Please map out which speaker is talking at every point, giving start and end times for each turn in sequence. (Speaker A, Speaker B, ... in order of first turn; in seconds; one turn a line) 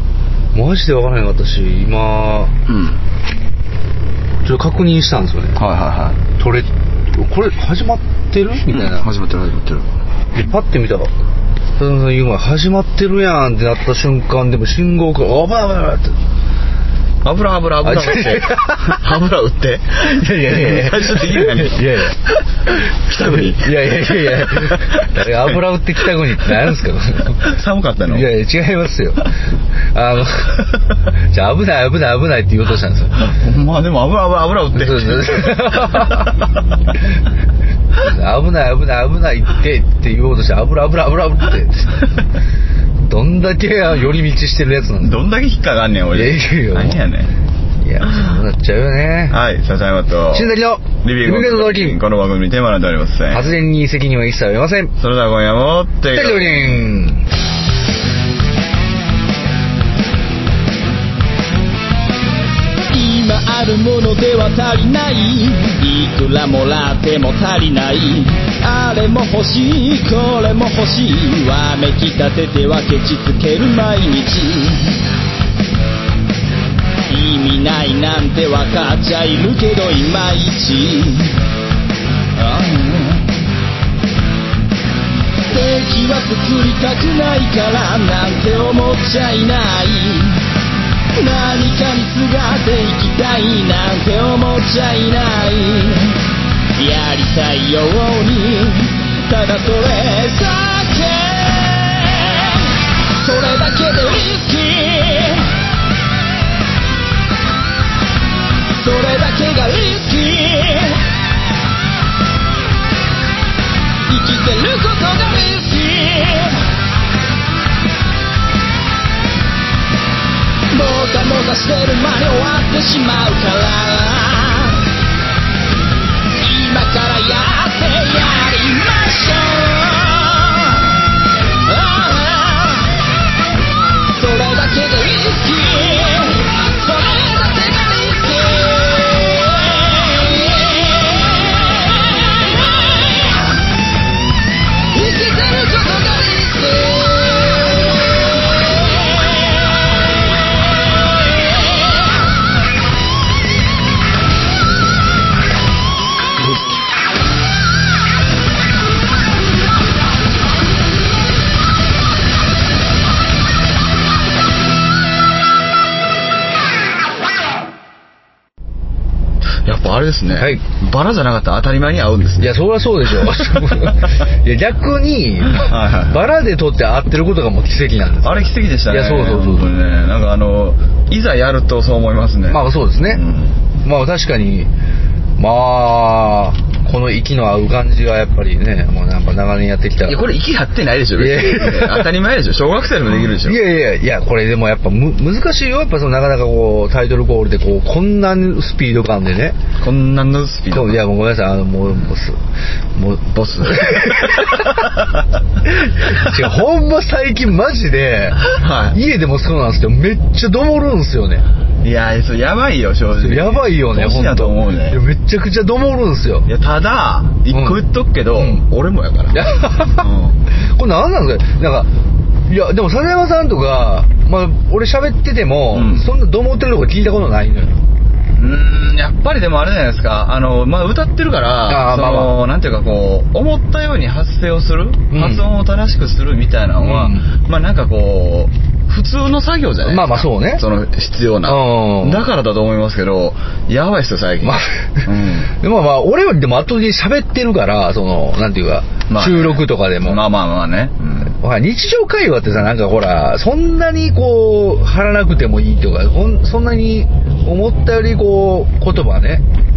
Speaker A: 0.5-2.5
Speaker B: 2.7-3.0
Speaker A: 4.4-5.6
Speaker B: 5.6-6.2
Speaker A: 6.3-9.1
Speaker B: 8.7-9.9
Speaker A: 10.3-11.1
Speaker A: 11.8-16.2
Speaker B: 17.2-25.6
Speaker A: 17.8-19.0
Speaker A: 20.0-27.4
Speaker B: 26.3-26.7
Speaker B: 27.3-28.3
Speaker A: 28.1-33.2
Speaker B: 33.1-36.3
Speaker A: 34.7-36.4
Speaker A: 38.0-42.0
Speaker A: 43.0-45.2
Speaker B: 45.0-47.3
Speaker A: 46.1-47.0
Speaker A: 47.8-49.4
Speaker B: 49.3-53.5
Speaker A: 50.3-52.0
Speaker A: 53.3-55.0
Speaker B: 55.0-57.0
Speaker A: 56.1-57.2
Speaker C: 62.9-75.0
Speaker C: 77.1-81.3
Speaker C: 82.3-83.3
Speaker C: 85.5-90.4
Speaker C: 91.2-96.2
Speaker C: 96.8-105.5
Speaker C: 108.8-111.0
Speaker C: 114.1-116.6
Speaker C: 120.7-124.8
Speaker C: 126.4-131.0
Speaker C: 131.6-132.9
Speaker C: 134.1-143.4
Speaker C: 144.9-147.8
Speaker C: 148.9-149.6
Speaker B: 169.5-172.6
Speaker A: 170.3-170.6
Speaker A: 172.4-179.7
Speaker B: 173.2-173.9
Speaker B: 175.5-176.2
Speaker B: 178.2-183.6
Speaker A: 182.5-183.2
Speaker A: 183.8-184.7
Speaker A: 185.4-190.3
Speaker B: 190.1-193.6
Speaker A: 191.2-192.1
Speaker A: 193.4-199.6
Speaker B: 199.8-201.0
Speaker A: 200.7-202.4
Speaker A: 202.9-205.0
Speaker B: 203.3-205.2
Speaker A: 205.6-211.4
Speaker B: 206.0-206.3
Speaker B: 208.5-209.0
Speaker B: 211.8-215.0
Speaker A: 213.2-216.5
Speaker B: 216.5-220.4
Speaker A: 217.5-217.8
Speaker A: 218.3-218.6
Speaker A: 219.3-221.9
Speaker A: 222.5-227.8
Speaker B: 225.7-226.1
Speaker B: 228.4-245.5
Speaker A: 231.7-232.4
Speaker A: 235.1-235.5
Speaker A: 236.8-237.3
Speaker A: 239.8-240.6
Speaker A: 241.4-242.2
Speaker A: 244.4-250.2
Speaker B: 249.1-251.3
Speaker A: 251.3-259.4